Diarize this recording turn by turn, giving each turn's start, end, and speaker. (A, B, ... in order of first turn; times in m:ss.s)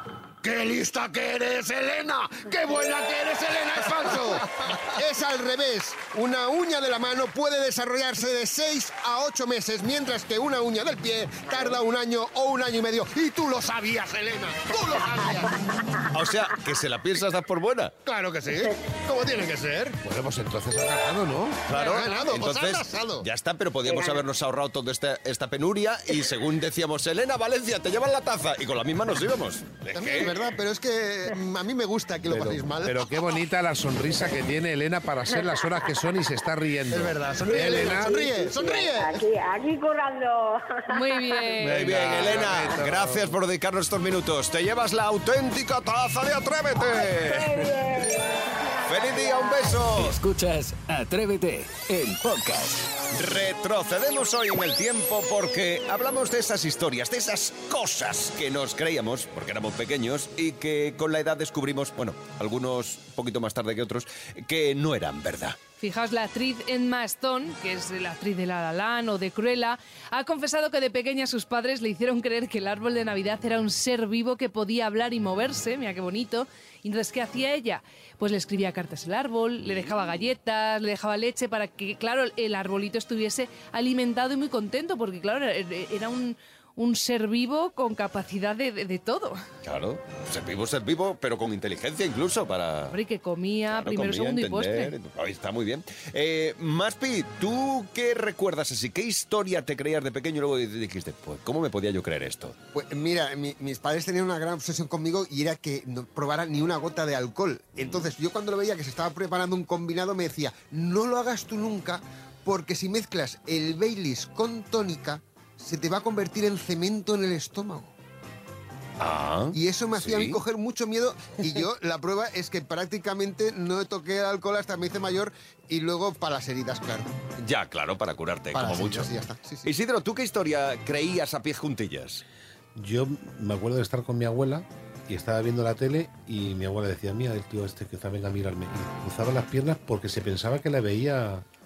0:00.4-0:15.6 A
0:16.1-0:17.9 B
0:18.0-0:20.0 A
0:20.0-0:21.6 C
0:21.7-0:30.4 B
0:21.7-0:23.2 A
0:21.8-0:22.1 D
0:23.9-0:24.2 E
0:29.9-0:33.1 A
0:32.3-0:38.3 C
0:36.9-0:39.2 A
0:37.5-0:41.5 E
0:40.9-0:41.9 D
0:41.6-0:43.4 C
0:41.6-0:47.8 B
0:46.8-0:49.8 E
0:48.9-0:50.2 B
0:49.9-0:52.9 F
0:53.1-1:05.6 B
1:05.8-1:29.4 D
1:19.6-1:20.1 B
1:29.6-1:33.0 B
1:32.9-1:34.9 D
1:33.7-1:42.5 B
1:42.7-1:57.9 A
1:59.0-2:00.4 B
1:59.5-2:07.1 A
2:07.4-2:09.1 B
2:08.5-2:09.7 A
2:09.6-2:12.2 B
2:12.8-2:21.4 C